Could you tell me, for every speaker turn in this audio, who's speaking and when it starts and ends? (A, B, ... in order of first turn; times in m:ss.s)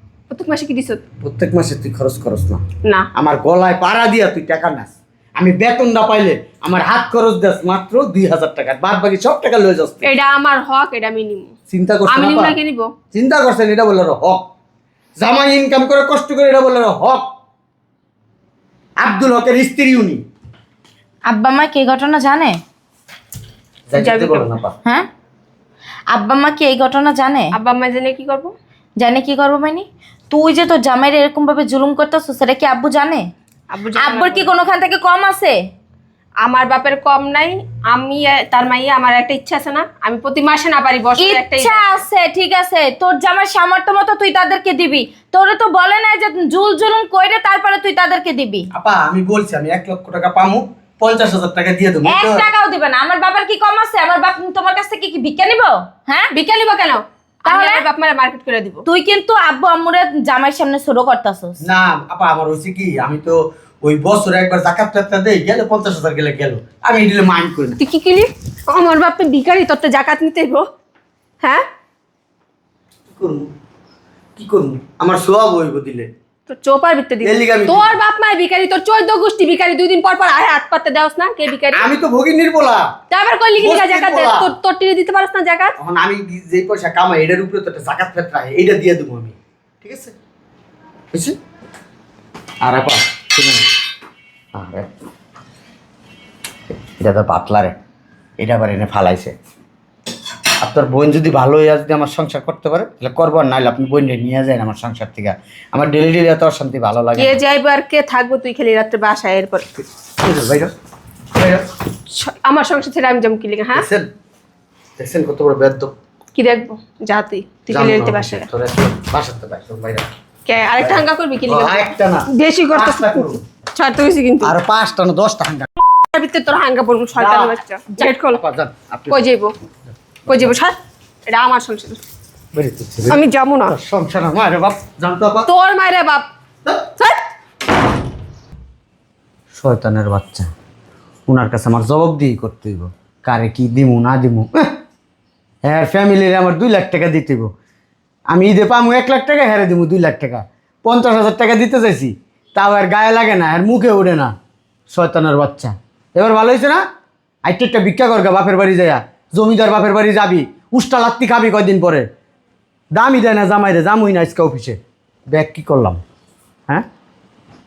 0:00.3-0:01.0 A
0:01.2-0:02.6 B
0:02.8-0:03.1 A
0:03.2-0:10.1 B
0:10.0-0:11.5 A
0:11.7-0:12.6 B
0:12.1-0:12.9 A
0:13.1-0:14.4 B
0:15.2-0:17.3 B
0:19.0-0:20.2 B
0:21.3-0:22.6 C
0:23.9-0:24.8 B
0:23.9-0:24.5 A
0:26.1-0:27.6 C
0:27.5-0:28.6 A
0:29.0-0:33.3 C
0:33.7-0:34.5 A
0:34.0-0:35.6 C
0:36.4-0:42.0 A
0:41.2-0:48.7 C
0:48.7-0:52.5 B
0:52.0-0:56.3 C
0:56.3-0:58.8 A
0:57.5-0:57.9 C
0:58.9-1:01.6 C
1:01.6-1:07.8 B
1:07.8-1:10.6 A
1:13.1-1:13.5 B
1:14.4-1:16.1 B
1:16.5-1:21.9 A
1:17.2-1:17.9 B
1:21.7-1:22.9 B
1:23.1-1:25.8 A
1:23.6-1:24.5 B
1:25.8-1:30.2 B
1:32.6-1:33.6 B
1:34.6-1:34.9 B
1:36.7-1:37.8 B
1:38.4-1:39.4 B
1:40.6-1:47.4 B
1:47.2-1:49.8 A
1:50.2-1:50.7 B
1:51.3-1:51.7 B
1:52.1-1:53.9 A
1:53.8-1:54.1 B
1:55.0-1:55.9 B
1:56.4-1:58.5 A
1:57.7-2:00.1 B
2:00.5-2:04.6 A
2:00.8-2:03.4 B
2:04.4-2:05.7 B
2:06.0-2:08.4 A
2:07.2-2:07.6 B
2:08.3-2:09.2 B
2:09.1-2:09.5 A
2:10.3-2:10.8 A
2:10.3-2:10.5 B
2:11.3-2:12.0 A
2:12.5-2:15.5 B
2:13.1-2:13.8 A
2:15.5-2:16.3 A
2:17.0-2:17.3 A
2:19.5-2:20.5 B
2:21.3-2:24.7 B
2:25.6-2:27.5 B
2:28.3-2:34.3 B
2:34.9-2:36.8 B
2:37.4-2:42.1 B
2:43.0-2:44.8 B
2:45.3-2:46.0 B